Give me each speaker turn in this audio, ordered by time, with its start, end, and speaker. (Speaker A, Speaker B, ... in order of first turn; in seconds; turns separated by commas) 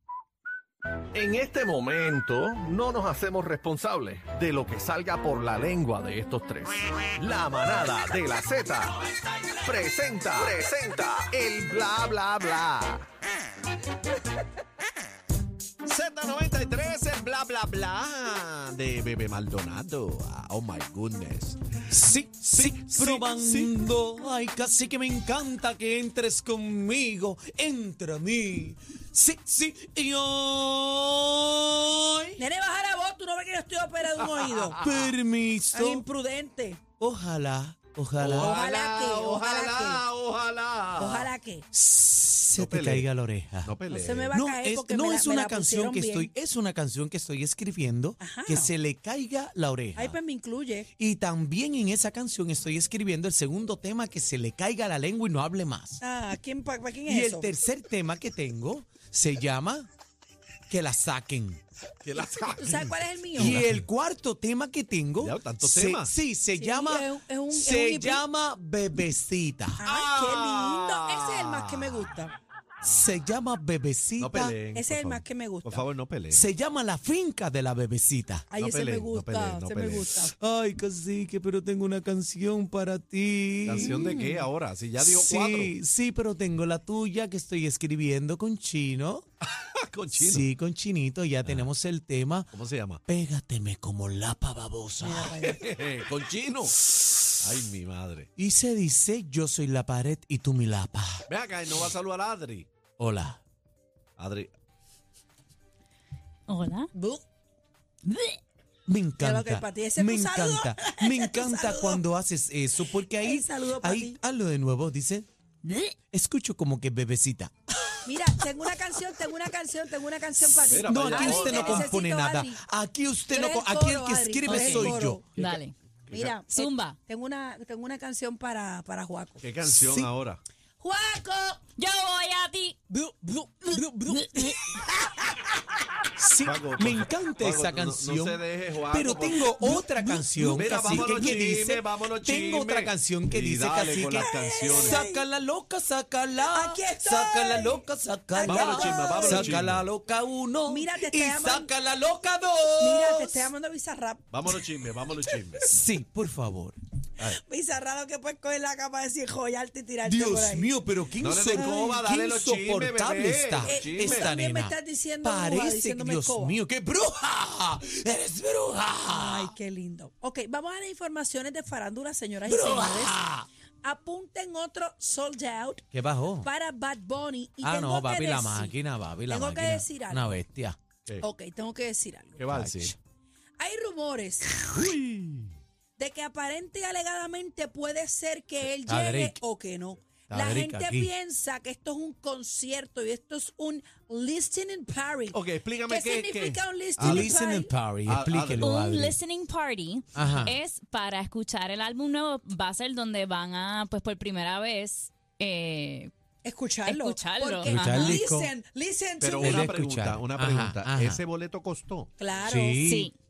Speaker A: 1.1-13.1, Speaker B: 15.8-21.7, Speaker C: 21.9-32.4, Speaker B: 22.5-23.8, Speaker D: 32.4-34.9, Speaker B: 34.4-35.0, Speaker C: 34.8-36.1, Speaker D: 35.7-36.8, Speaker C: 37.0-38.5, Speaker B: 38.2-41.3, Speaker D: 38.3-40.0, Speaker D: 41.0-41.6, Speaker C: 41.7-43.7, Speaker B: 42.5-43.1, Speaker B: 43.6-44.4, Speaker D: 43.9-46.3, Speaker C: 44.3-50.2, Speaker D: 48.2-48.8, Speaker D: 50.0-50.9, Speaker C: 51.0-56.0, Speaker D: 56.0-57.5, Speaker C: 57.1-59.9, Speaker C: 60.7-61.6, Speaker B: 62.0-63.7, Speaker D: 62.2-63.7, Speaker C: 63.4-69.8, Speaker B: 65.2-66.1, Speaker D: 66.6-68.2, Speaker D: 69.8-72.3, Speaker B: 69.8-72.1, Speaker B: 72.8-73.2, Speaker C: 72.8-74.6, Speaker B: 74.2-76.5, Speaker D: 74.7-75.9, Speaker C: 76.3-78.5, Speaker D: 78.5-80.3, Speaker B: 78.6-80.2, Speaker C: 80.4-83.9, Speaker B: 83.6-85.8, Speaker E: 83.8-84.4, Speaker C: 85.0-89.2, Speaker B: 89.4-90.5, Speaker C: 90.2-92.5, Speaker B: 92.5-93.0, Speaker C: 93.1-95.3, Speaker D: 95.0-95.6, Speaker B: 95.4-98.3, Speaker C: 98.4-101.2, Speaker B: 101.3-102.7, Speaker C: 103.0-103.4, Speaker B: 104.2-104.5, Speaker E: 106.5-106.9, Speaker D: 107.0-107.2, Speaker E: 108.0-108.4, Speaker C: 108.9-115.3, Speaker D: 109.2-112.1, Speaker D: 112.8-114.2, Speaker E: 115.6-115.9, Speaker C: 116.1-117.5, Speaker D: 118.0-122.6, Speaker B: 120.6-122.0, Speaker C: 120.8-125.2, Speaker D: 123.3-125.2, Speaker E: 124.5-125.8, Speaker B: 126.1-126.3, Speaker D: 126.1-129.4, Speaker E: 126.5-127.0, Speaker B: 129.4-130.4, Speaker C: 129.7-130.1, Speaker D: 130.8-131.6, Speaker E: 131.8-132.8, Speaker C: 132.9-134.6, Speaker E: 134.1-134.8, Speaker C: 136.2-153.5, Speaker B: 136.4-145.0, Speaker D: 144.1-145.2, Speaker D: 146.5-149.7, Speaker B: 148.4-149.9, Speaker D: 150.7-151.7, Speaker D: 152.8-154.7, Speaker B: 154.3-155.7, Speaker C: 155.6-156.8, Speaker D: 157.2-160.7, Speaker C: 160.0-169.5, Speaker B: 161.2-164.3, Speaker D: 161.5-161.8, Speaker D: 163.6-166.6, Speaker D: 169.1-173.2, Speaker C: 172.5-173.5, Speaker D: 173.8-175.8, Speaker C: 175.9-176.5, Speaker D: 176.4-178.8, Speaker C: 177.6-180.8, Speaker D: 179.3-180.4, Speaker D: 181.2-182.5, Speaker B: 182.4-182.9, Speaker C: 182.5-183.0, Speaker D: 183.6-184.7, Speaker B: 184.7-185.5, Speaker D: 186.0-197.7, Speaker C: 188.8-189.4, Speaker C: 190.3-191.1, Speaker B: 195.3-197.4, Speaker C: 197.0-199.2, Speaker B: 198.0-198.8, Speaker E: 198.6-206.1, Speaker C: 200.2-200.6, Speaker D: 206.4-209.7, Speaker E: 206.8-208.2, Speaker C: 207.7-208.5, Speaker B: 209.2-212.1, Speaker C: 209.4-211.2, Speaker D: 212.2-212.8, Speaker C: 212.4-213.1, Speaker E: 212.8-213.2